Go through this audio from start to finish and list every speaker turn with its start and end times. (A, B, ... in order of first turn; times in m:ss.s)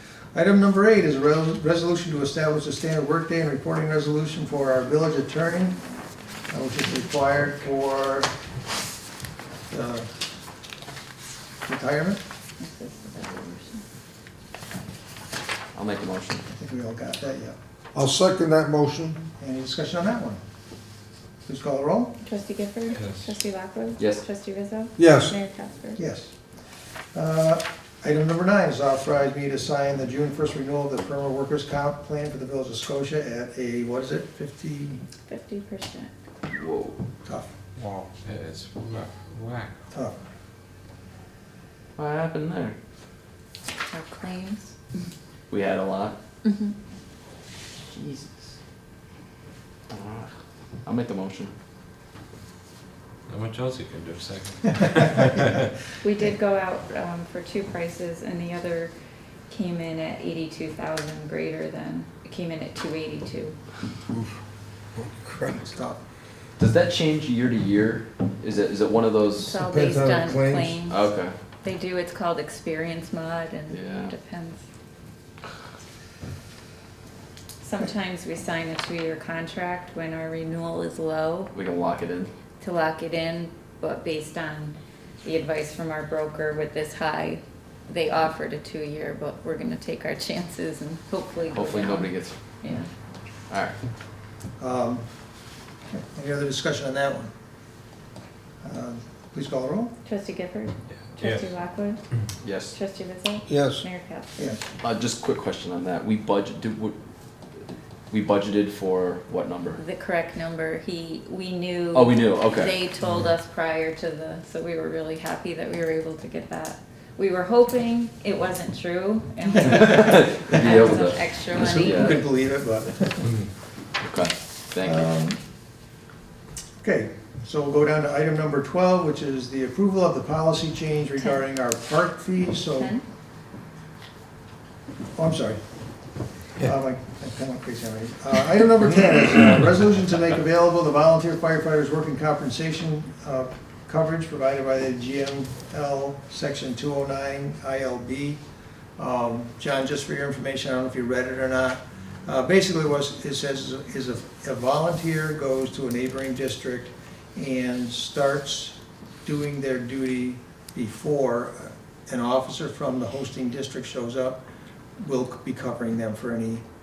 0:00.3-0:05.8 A
0:06.5-0:08.3 A
0:09.7-0:10.1 A
0:11.6-0:12.2 A
0:12.6-0:13.8 B
0:15.7-0:16.5 C
0:16.5-0:17.6 A
0:17.9-0:19.2 D
0:19.4-0:20.4 A
0:21.4-0:22.1 A
0:22.2-0:26.0 B
0:22.9-0:23.2 E
0:24.0-0:24.2 C
0:25.0-0:25.3 D
0:26.0-0:26.3 A
0:27.1-0:35.0 A
0:35.3-0:36.1 B
0:36.5-0:37.0 C
0:37.2-0:37.5 A
0:37.8-0:38.1 D
0:38.2-0:39.8 E
0:42.0-0:42.8 C
0:43.9-0:45.0 B
0:45.5-0:46.2 C
0:46.4-0:46.7 B
0:47.8-0:48.5 C
0:49.9-0:50.3 C
0:50.8-0:51.5 C
0:53.3-0:55.7 E
0:56.0-0:58.9 B
0:59.5-1:03.6 B
1:05.0-1:05.6 D
1:05.5-1:06.0 A
1:06.6-1:09.5 C
1:09.4-1:11.1 B
1:09.6-1:10.8 D
1:10.9-1:11.3 C
1:11.6-1:14.6 B
1:13.7-1:14.1 C
1:17.6-1:21.5 B
1:21.5-1:22.3 C
1:22.6-1:32.9 B
1:31.5-1:32.3 C
1:33.5-1:33.7 C
1:34.6-1:35.0 A
1:35.9-1:37.3 A
1:38.6-1:39.9 A
1:40.0-1:42.0 B
1:41.1-1:41.5 E
1:42.4-1:42.7 C
1:42.6-1:44.5 B
1:43.5-1:43.8 D
1:44.8-1:46.9 C
1:48.1-1:49.8 C
1:49.8-2:02.2 B
1:51.9-1:52.7 C
1:59.7-2:02.2 C
2:01.5-2:03.4 A
2:04.0-2:05.1 C
2:04.8-2:05.4 A
2:06.8-2:12.9 A
2:12.7-2:13.0 B
2:15.2-2:15.6 A
2:16.6-2:28.4 A
2:29.0-2:44.4 A
2:45.0-2:46.6 A